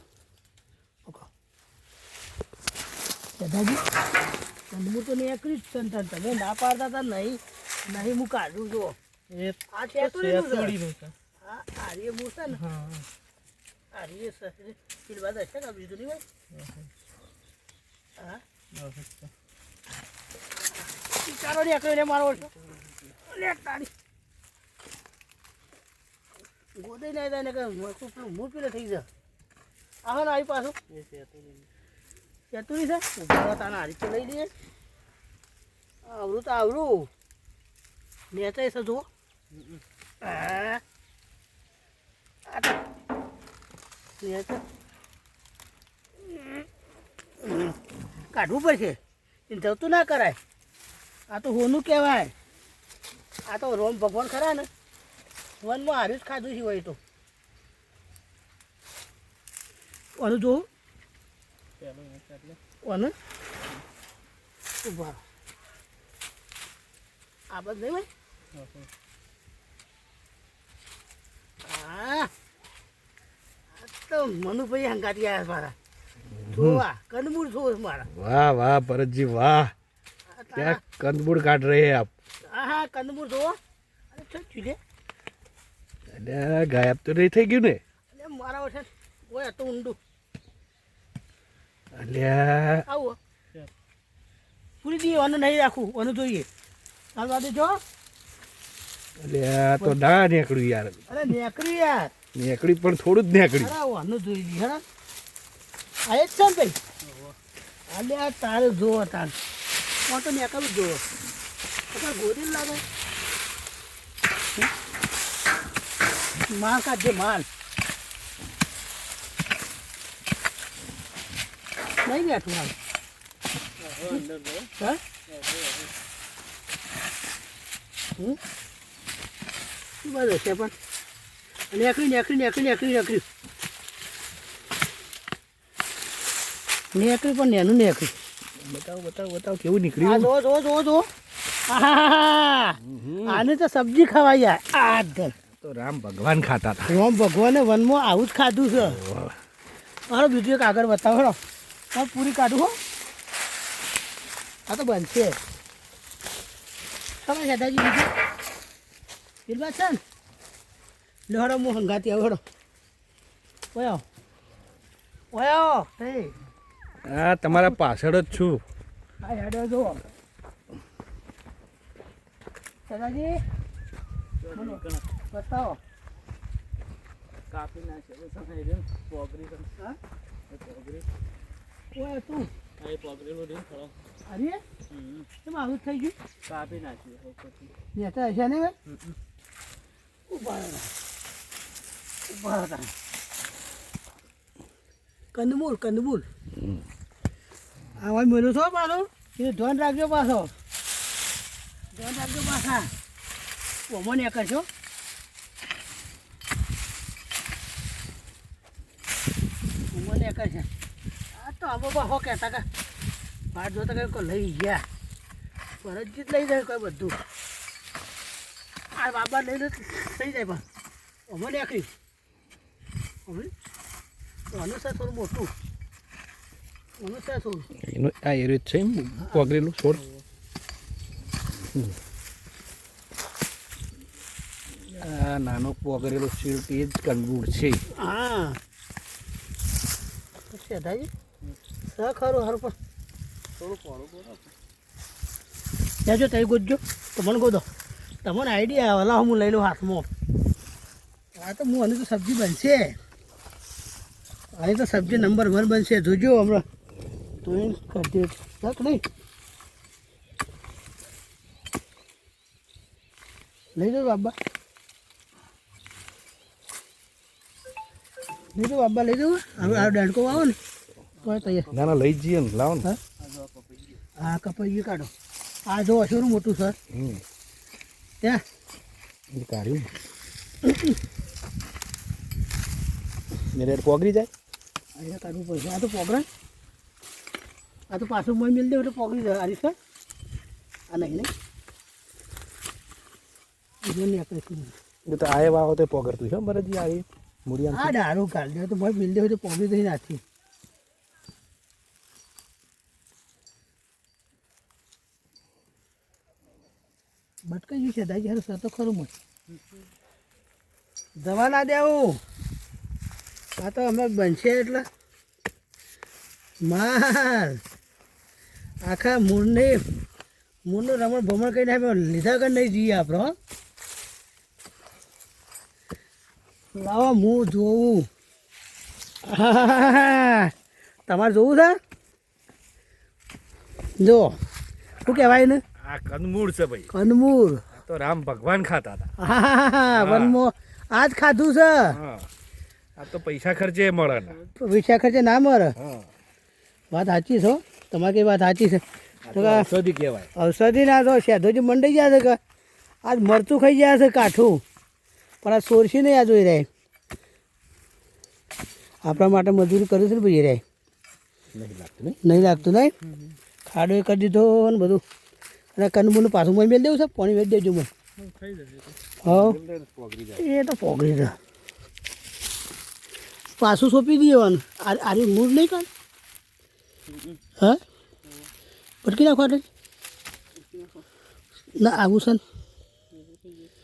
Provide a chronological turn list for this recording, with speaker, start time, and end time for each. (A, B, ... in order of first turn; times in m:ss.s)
0:03.4-0:03.8 A
0:04.7-0:09.0 A
0:09.3-0:11.1 B
0:09.7-0:10.8 A
0:11.4-0:12.7 A
0:12.6-0:13.0 B
0:13.9-0:16.2 A
0:18.7-0:19.3 B
0:21.2-0:22.5 A
0:23.3-0:23.9 A
0:26.8-0:29.1 A
0:30.0-0:30.8 A
0:30.9-0:31.7 B
0:32.5-0:34.5 A
0:36.0-0:37.1 A
0:38.3-0:39.0 A
0:40.2-0:40.8 A
0:42.5-0:42.8 A
0:44.2-0:44.6 A
0:46.2-0:46.6 A
0:47.4-0:47.8 A
0:48.3-0:50.4 A
0:51.3-0:52.3 A
0:53.5-0:54.7 A
0:55.6-0:57.0 A
1:00.2-1:00.7 A
1:01.8-1:02.6 B
1:02.8-1:03.1 A
1:04.8-1:05.2 A
1:07.5-1:08.1 A
1:08.6-1:08.9 B
1:11.6-1:12.3 A
1:13.8-1:15.8 A
1:16.4-1:16.8 C
1:16.5-1:18.1 A
1:18.1-1:19.7 C
1:20.3-1:20.8 A
1:20.6-1:22.1 C
1:22.4-1:23.6 A
1:24.1-1:24.8 A
1:26.1-1:27.8 C
1:28.1-1:30.0 A
1:31.9-1:32.8 C
1:32.9-1:33.2 A
1:34.8-1:36.5 A
1:37.2-1:37.8 A
1:39.2-1:41.0 C
1:41.1-1:42.1 A
1:42.4-1:43.7 C
1:43.6-1:44.8 A
1:46.1-1:46.8 A
1:47.0-1:47.4 B
1:47.9-1:49.3 A
1:50.1-1:51.0 A
1:51.9-1:52.8 A
1:56.5-1:57.5 A
2:02.0-2:02.8 A
2:03.8-2:04.7 B
2:05.3-2:05.9 B
2:10.0-2:10.7 A
2:11.7-2:13.2 A
2:16.9-2:18.2 A
2:18.6-2:20.3 C
2:20.0-2:21.1 A
2:21.7-2:25.3 A
2:22.8-2:23.4 C
2:25.5-2:26.9 C
2:26.9-2:29.0 A
2:28.8-2:29.4 C
2:30.1-2:31.4 A
2:31.9-2:32.8 A
2:34.7-2:35.4 A
2:37.2-2:38.1 A
2:39.5-2:40.0 A
2:41.3-2:42.4 A
2:43.7-2:44.0 A
2:45.3-2:46.4 A
2:47.0-2:48.6 C
2:47.5-2:47.8 A
2:49.2-2:50.1 A
2:52.9-2:53.4 A
2:54.4-2:55.0 B
2:54.5-2:55.8 A
2:57.5-2:59.7 B
3:00.5-3:01.1 B
3:01.9-3:02.5 A
3:02.8-3:03.9 B
3:04.3-3:04.6 A
3:04.9-3:05.3 B
3:05.4-3:06.2 A
3:06.5-3:07.7 B
3:07.9-3:08.8 A
3:08.9-3:09.2 B
3:10.3-3:10.9 A
3:12.3-3:12.9 A
3:15.3-3:16.3 A
3:16.6-3:16.8 C
3:18.0-3:20.5 A
3:21.9-3:22.9 A
3:23.9-3:24.7 A
3:29.9-3:30.7 A
3:31.3-3:32.7 A
3:33.5-3:34.8 A
3:35.8-3:37.2 A
3:38.9-3:40.6 A
3:41.3-3:41.9 A
3:43.3-3:43.5 A
3:44.5-3:45.5 A
3:47.0-3:47.7 A
3:47.8-3:50.0 C
3:54.9-3:57.8 C
3:57.9-3:58.6 A
4:00.5-4:01.1 A
4:01.9-4:02.8 A
4:03.6-4:04.5 B
4:06.0-4:07.7 A
4:08.2-4:10.1 A
4:11.4-4:13.0 A
4:14.5-4:16.6 A
4:17.4-4:19.0 A
4:23.8-4:24.3 A
4:28.6-4:30.6 A
4:29.6-4:30.0 C
4:31.2-4:31.7 A
4:31.2-4:31.9 B
4:31.7-4:32.9 C
4:33.2-4:34.0 B
4:34.2-4:35.1 A
4:35.7-4:36.8 A
4:36.9-4:37.2 C
4:39.3-4:39.9 C
4:40.6-4:41.0 A
4:43.5-4:44.3 C
4:45.0-4:46.3 A
4:47.9-4:49.8 A
4:50.9-4:51.3 A
4:53.8-4:54.7 A
4:55.1-4:58.0 C
4:57.7-5:00.2 A
5:07.4-5:09.1 A
5:11.2-5:12.2 A
5:13.6-5:14.9 A
5:16.6-5:17.6 A
5:18.8-5:19.8 A
5:20.7-5:23.4 A
5:26.8-5:28.1 A
5:29.2-5:30.5 A
5:31.1-5:31.8 A
5:34.0-5:34.4 A
5:35.0-5:35.6 A
5:35.8-5:36.9 C
5:36.9-5:37.6 A
5:37.7-5:39.1 C
5:39.2-5:42.0 A
5:39.9-5:40.4 C
5:41.9-5:42.3 C
5:43.0-5:44.4 C
5:44.6-5:45.8 A
5:45.8-5:46.1 C
5:46.9-5:49.7 A
5:49.3-5:50.3 C
5:50.4-5:52.4 A
5:53.0-5:54.6 A
5:55.4-5:56.7 A
5:59.0-6:00.6 A
6:01.5-6:02.2 C
6:02.2-6:02.9 A
6:03.7-6:05.0 A
6:05.8-6:07.9 A
6:08.2-6:09.0 B
6:09.2-6:09.6 A
6:09.3-6:10.4 C
6:10.4-6:11.4 A
6:13.5-6:15.9 A
6:19.0-6:19.6 A
6:21.8-6:22.4 A
6:23.2-6:23.7 B